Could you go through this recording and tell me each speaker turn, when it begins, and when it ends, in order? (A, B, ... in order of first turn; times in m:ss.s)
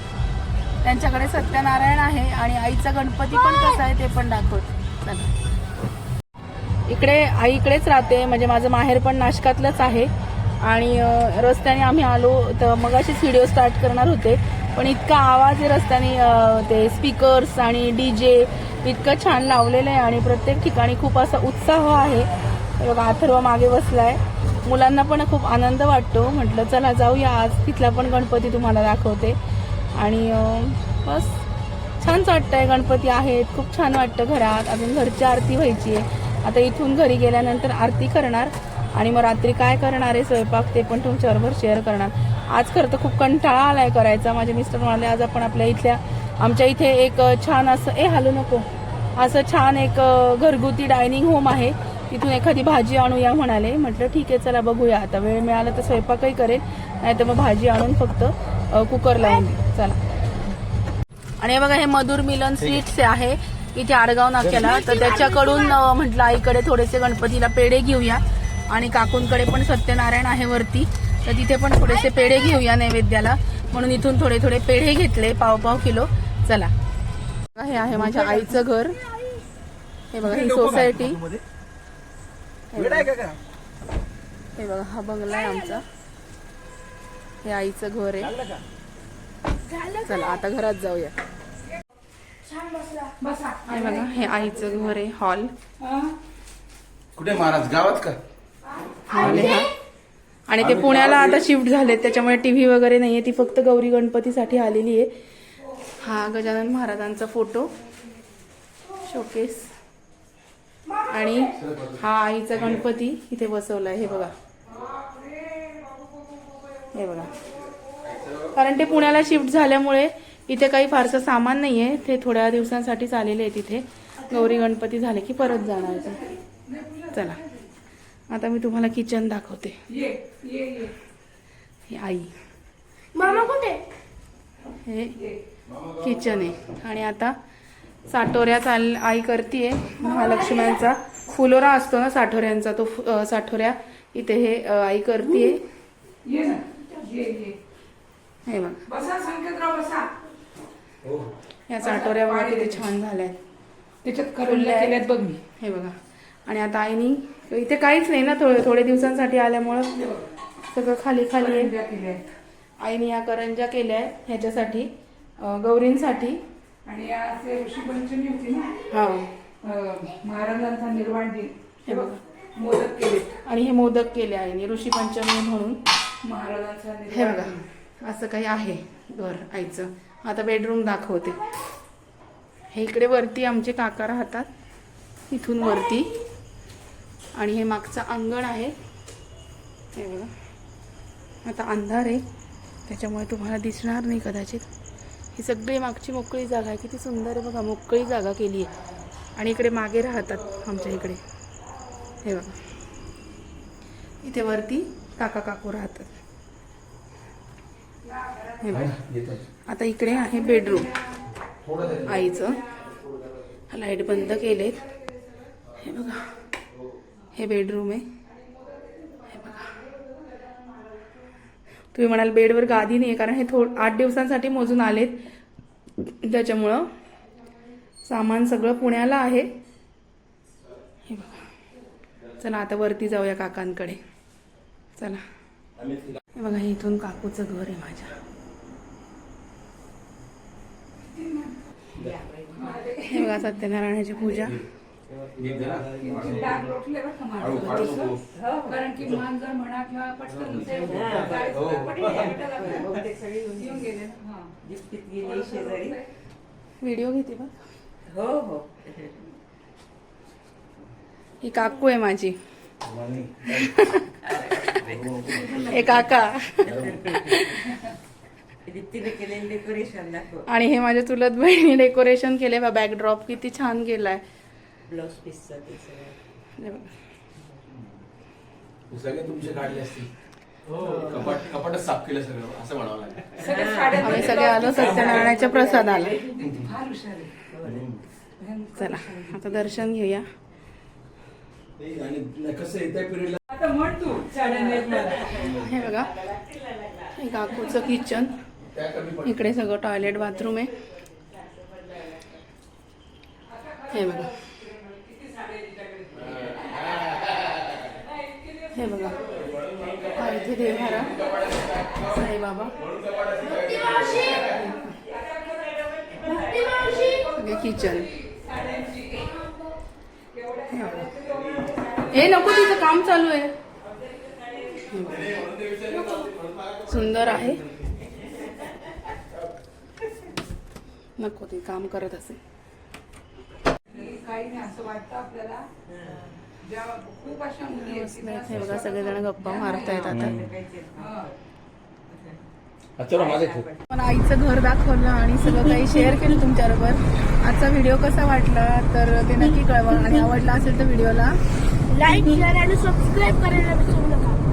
0:00.8-0:05.3 A
0:06.9-0:10.1 A
0:10.6-0:29.4 A
0:29.9-0:31.4 A
0:32.0-1:00.0 A
1:01.4-1:16.7 A
1:17.6-1:19.0 A
1:20.1-1:21.2 A
1:20.2-1:21.4 B
1:22.7-1:23.1 A
1:22.7-1:23.4 B
1:24.6-1:25.8 A
1:27.4-1:28.3 A
1:28.2-1:28.6 B
1:29.9-1:31.1 A
1:32.4-1:34.7 C
1:33.7-1:35.5 A
1:35.8-1:36.1 D
1:37.1-1:38.2 B
1:39.1-1:39.7 A
1:39.1-1:39.6 B
1:40.5-1:45.1 A
1:40.6-1:41.4 B
1:45.9-1:47.7 A
1:49.0-1:49.7 A
1:51.0-1:54.3 A
1:51.6-1:52.0 B
1:54.8-1:56.4 C
1:56.9-1:57.3 A
1:58.0-1:58.6 B
1:58.5-2:06.4 A
2:06.6-2:07.6 D
2:07.1-2:07.4 A
2:08.3-2:09.8 A
2:09.9-2:10.9 D
2:11.9-2:12.3 A
2:13.1-2:13.8 C
2:14.8-2:15.2 A
2:15.9-2:17.4 A
2:18.1-2:25.6 A
2:26.2-2:27.5 D
2:26.9-2:27.4 C
2:28.4-2:28.8 A
2:28.9-2:30.1 D
2:31.0-2:31.3 B
2:31.7-2:33.4 A
2:32.0-2:32.6 C
2:34.0-2:34.4 D
2:34.4-2:35.0 A
2:34.6-2:35.1 C
2:35.1-2:35.4 D
2:35.6-2:40.1 A
2:40.6-2:41.7 A
2:41.5-2:42.3 D
2:42.8-2:46.4 A
2:46.8-2:48.8 D
2:48.9-2:49.3 A
2:49.6-2:51.5 D
2:51.8-2:52.2 A
2:52.5-2:53.3 D
2:53.4-2:55.8 A
2:56.2-2:57.5 D
2:57.1-3:01.4 A
3:02.7-3:04.5 A
3:05.3-3:06.2 A
3:07.3-3:08.7 A
3:09.9-3:10.3 A
3:11.4-3:12.2 A
3:12.9-3:14.7 A
3:15.3-3:18.7 A
3:19.4-3:21.2 A
3:22.2-3:22.6 A
3:24.2-3:26.1 A
3:28.6-3:28.9 A
3:28.7-3:29.4 B
3:29.6-3:31.0 A
3:31.6-3:32.3 B
3:32.0-3:32.6 A
3:33.7-3:34.8 A
3:35.8-3:36.3 A
3:37.3-3:38.1 A
3:38.5-3:41.1 C
3:41.9-3:45.2 A
3:46.1-3:46.9 A
3:48.0-3:49.5 A
3:51.0-3:51.4 A
3:52.4-3:54.0 A
3:55.8-3:56.2 B
3:56.3-3:58.2 A
4:01.2-4:01.5 D
4:02.0-4:02.8 E
4:02.6-4:02.9 D
4:03.0-4:04.6 A
4:04.4-4:04.6 B
4:05.1-4:06.5 E
4:05.4-4:06.7 B
4:05.9-4:08.1 D
4:07.4-4:08.2 B
4:08.3-4:08.8 E
4:08.7-4:12.0 D
4:10.3-4:12.4 B
4:10.6-4:14.0 E
4:12.1-4:12.6 C
4:13.6-4:14.5 D
4:14.6-4:16.0 E
4:15.2-4:16.0 D
4:16.8-4:17.5 A
4:18.1-4:19.1 E
4:21.4-4:22.4 A
4:22.8-4:23.7 B
4:23.5-4:24.6 A
4:24.7-4:26.1 B
4:25.6-4:27.7 A
4:26.6-4:27.3 B
4:26.7-4:27.4 E
4:28.6-4:30.4 E
4:30.5-4:34.2 A
4:34.8-4:36.2 E
4:36.6-4:36.9 A
4:38.9-4:40.1 B
4:40.7-4:43.4 B
4:40.8-4:41.3 E
4:43.4-4:44.0 D
4:43.4-4:46.6 E
4:43.9-4:46.2 A
4:44.7-4:45.2 B
4:46.4-4:46.7 B
4:46.6-4:47.3 D
4:47.5-4:47.8 E
4:47.6-4:48.0 B
4:48.4-4:49.2 D
4:48.7-4:50.3 A
4:51.8-4:53.4 B
4:53.5-4:55.2 D
4:54.3-4:55.7 E
4:55.4-4:56.2 A
4:56.3-4:57.1 E
4:57.1-4:58.4 A
4:58.7-4:59.4 B
4:59.2-5:00.7 A
5:01.2-5:02.4 E
5:03.5-5:06.0 D
5:03.9-5:04.3 A
5:06.2-5:06.7 B
5:08.7-5:09.2 A
5:09.4-5:10.1 B
5:10.1-5:11.2 A
5:11.2-5:11.6 B
5:11.9-5:12.8 A
5:12.8-5:14.4 B
5:13.6-5:14.7 C
5:14.5-5:14.8 A
5:15.1-5:17.1 E
5:16.4-5:17.3 C
5:17.3-5:18.1 A
5:20.7-5:21.2 A
5:22.1-5:23.5 A
5:24.2-5:24.8 E
5:24.9-5:25.4 A
5:25.2-5:27.5 B
5:26.8-5:27.7 A
5:31.2-5:32.4 A
5:33.9-5:35.7 D
5:35.9-5:36.3 E
5:36.6-5:39.9 D
5:37.6-5:40.4 A
5:38.5-5:38.8 B
5:39.5-5:41.4 E
5:40.1-5:40.5 B
5:41.0-5:41.2 D
5:42.1-5:42.4 E
5:43.0-5:43.7 B
5:43.1-5:43.8 E
5:43.9-5:51.4 A
5:51.9-5:54.4 C